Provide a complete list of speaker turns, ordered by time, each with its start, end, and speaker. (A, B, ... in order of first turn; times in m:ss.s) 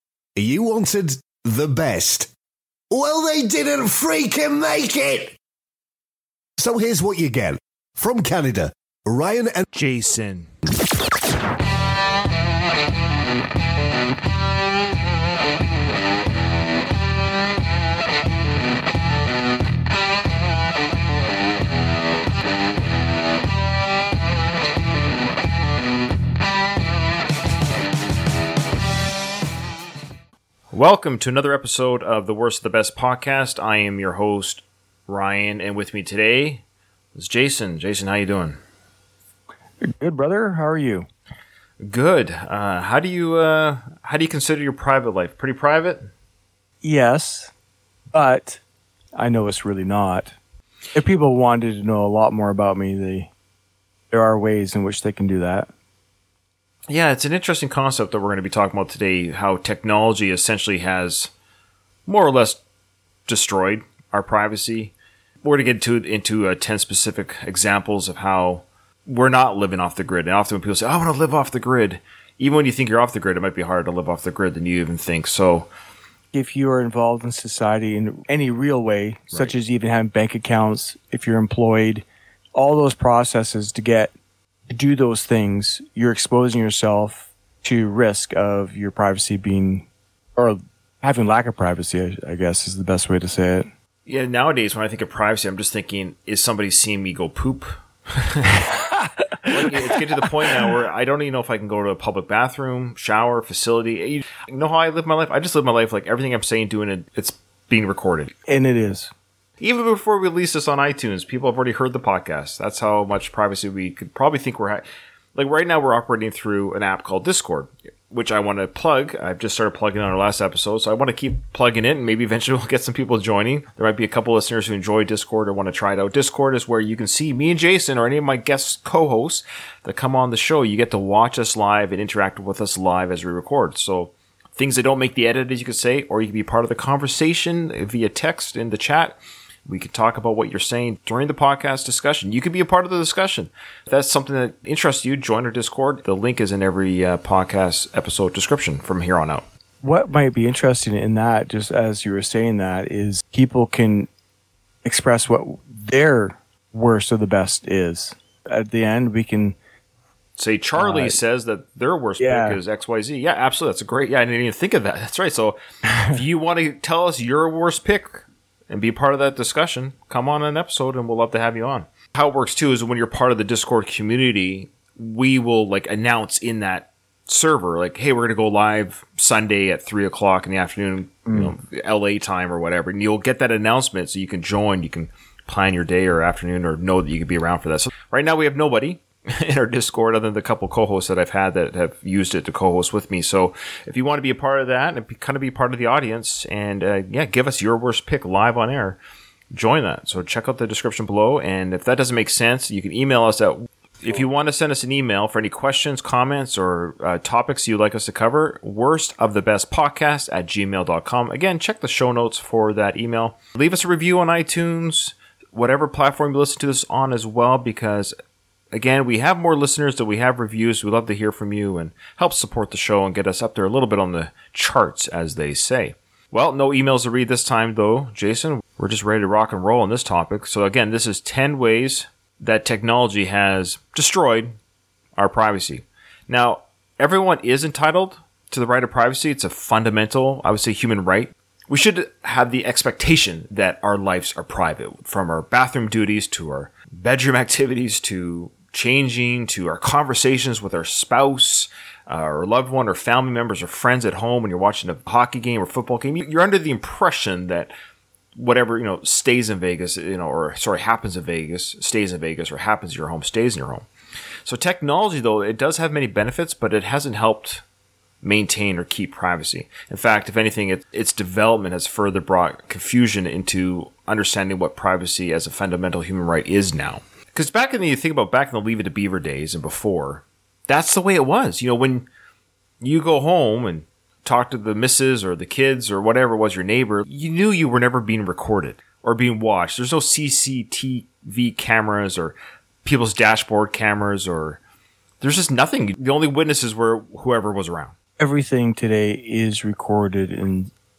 0:00.4-0:02.3 A
0:02.9-0:05.4 A
0:06.6-0:09.7 A
0:09.7-0:10.5 B
0:30.7-0:36.6 B
0:37.1-0:38.6 B
0:39.8-0:41.1 C
0:41.8-0:46.1 B
0:46.8-0:47.5 C
0:48.1-0:48.6 C
0:49.2-0:50.4 C
0:51.0-0:53.3 C
0:54.1-0:55.7 C
0:56.9-1:01.3 B
1:02.1-1:02.6 B
1:03.3-1:15.7 B
1:16.3-1:24.1 C
1:24.7-1:33.7 C
1:34.1-1:38.6 B
1:39.4-1:40.0 C
1:39.4-1:48.3 B
1:48.5-1:49.1 C
1:49.6-1:54.8 B
1:55.4-2:29.4 B
2:29.8-2:34.1 C
2:34.8-2:39.6 C
2:40.4-3:19.0 B
2:40.8-2:41.2 C
2:42.2-2:42.6 C
3:01.3-3:01.5 C
3:19.5-3:38.2 B
3:38.7-3:54.6 B
3:55.2-4:17.7 B
4:18.4-4:23.9 B
4:24.4-4:27.6 B
4:28.2-4:42.1 B
4:42.8-4:54.6 B
4:55.2-4:57.9 B
4:58.2-5:00.7 C